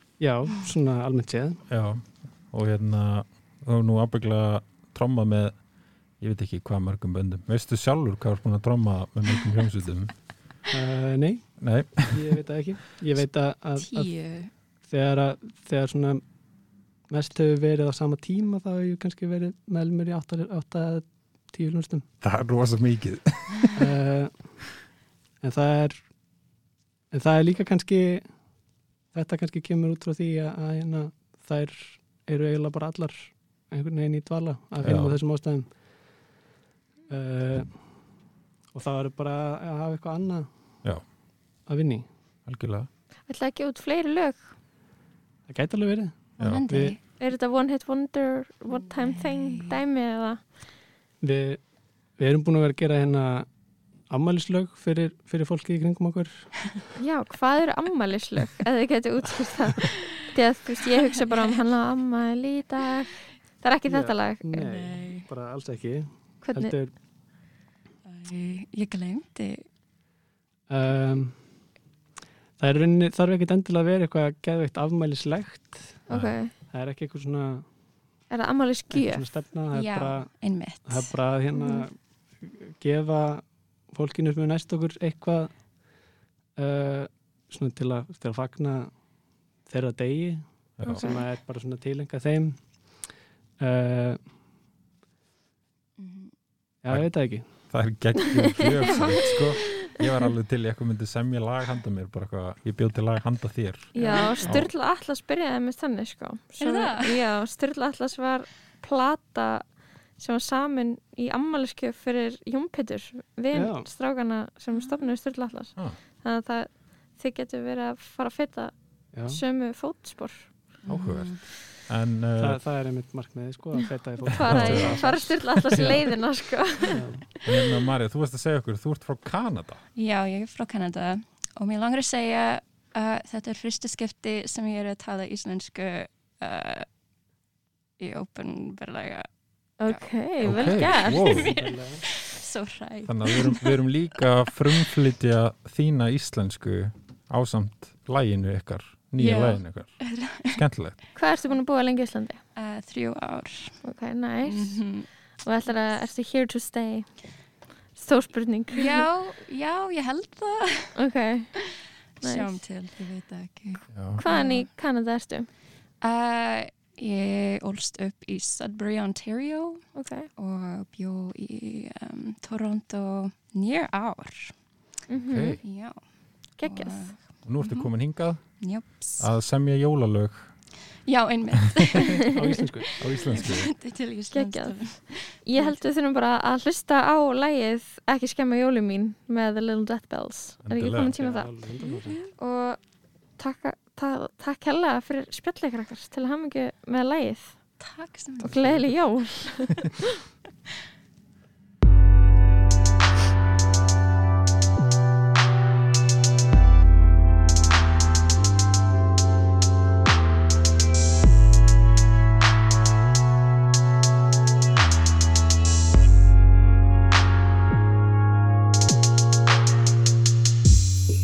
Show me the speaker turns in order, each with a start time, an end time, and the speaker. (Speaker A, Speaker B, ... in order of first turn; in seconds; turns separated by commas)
Speaker A: 0.2-1.6, Speaker B: 1.7-5.6, Speaker B: 6.2-10.1, Speaker A: 10.7-11.4, Speaker B: 11.6-12.2, Speaker A: 12.1-14.1, Speaker C: 13.8-14.5, Speaker A: 14.9-16.2, Speaker A: 17.1-22.1, Speaker B: 22.2-23.8, Speaker A: 23.7-24.3, Speaker A: 25.4-26.0, Speaker A: 27.1-28.2, Speaker A: 29.1-35.6, Speaker B: 34.8-35.2, Speaker A: 37.1-37.7, Speaker A: 38.7-40.5, Speaker A: 41.7-42.0, Speaker B: 42.5-42.9, Speaker D: 43.3-44.5, Speaker A: 45.5-47.0, Speaker C: 46.4-47.0, Speaker D: 47.2-50.4, Speaker C: 48.7-49.8, Speaker A: 51.2-51.6, Speaker A: 52.2-53.5, Speaker A: 54.1-56.5, Speaker D: 57.0-64.5, Speaker C: 61.2-61.6, Speaker A: 63.8-66.9, Speaker C: 64.5-65.3, Speaker D: 66.4-66.7, Speaker C: 68.0-69.7, Speaker A: 70.7-71.3, Speaker A: 72.6-76.0, Speaker D: 76.1-76.5, Speaker A: 76.7-77.6, Speaker D: 78.3-79.2, Speaker A: 78.9-80.3, Speaker C: 79.7-81.1, Speaker A: 80.8-85.5, Speaker A: 86.6-88.9, Speaker A: 89.7-90.4, Speaker B: 90.8-91.1, Speaker D: 90.8-91.2, Speaker A: 90.9-92.6, Speaker A: 93.6-94.2, Speaker C: 96.0-96.3, Speaker A: 96.8-97.4, Speaker B: 97.7-104.7, Speaker D: 98.8-100.0, Speaker D: 103.9-118.7, Speaker A: 104.0-104.3, Speaker C: 106.6-107.2, Speaker A: 113.5-113.9, Speaker C: 114.8-115.1, Speaker A: 119.1-119.4, Speaker D: 119.2-120.5, Speaker C: 120.8-121.4, Speaker B: 120.9-122.6, Speaker A: 122.4-125.3, Speaker D: 124.2-127.0, Speaker B: 124.3-126.1, Speaker A: 126.9-127.2, Speaker B: 127.4-129.8, Speaker C: 129.9-136.8, Speaker C: 138.0-139.3, Speaker D: 139.8-141.3, Speaker C: 139.9-143.9, Speaker B: 140.4-141.5, Speaker A: 141.5-142.1, Speaker B: 143.1-151.0, Speaker C: 149.2-150.6, Speaker D: 151.1-152.4, Speaker C: 152.6-153.8, Speaker D: 153.8-154.8, Speaker C: 154.4-155.1, Speaker D: 155.4-157.1, Speaker D: 157.9-159.1, Speaker C: 158.7-161.0, Speaker D: 160.9-161.5, Speaker C: 161.6-164.7, Speaker D: 162.2-162.6, Speaker B: 163.9-164.2, Speaker D: 164.2-165.5, Speaker C: 166.0-169.8, Speaker D: 169.9-170.3, Speaker C: 170.4-174.5, Speaker D: 175.1-175.6, Speaker B: 175.1-175.6, Speaker C: 175.6-176.0, Speaker D: 176.6-177.1, Speaker C: 176.6-177.9, Speaker B: 177.4-178.4, Speaker C: 178.6-179.2, Speaker B: 179.2-180.5, Speaker C: 181.0-185.8, Speaker A: 182.3-182.9, Speaker B: 183.0-183.7, Speaker D: 184.3-184.8, Speaker D: 185.4-192.8, Speaker B: 190.6-191.2, Speaker A: 191.2-192.2, Speaker D: 193.4-197.5, Speaker C: 197.8-198.8, Speaker A: 198.4-198.8, Speaker D: 198.4-200.2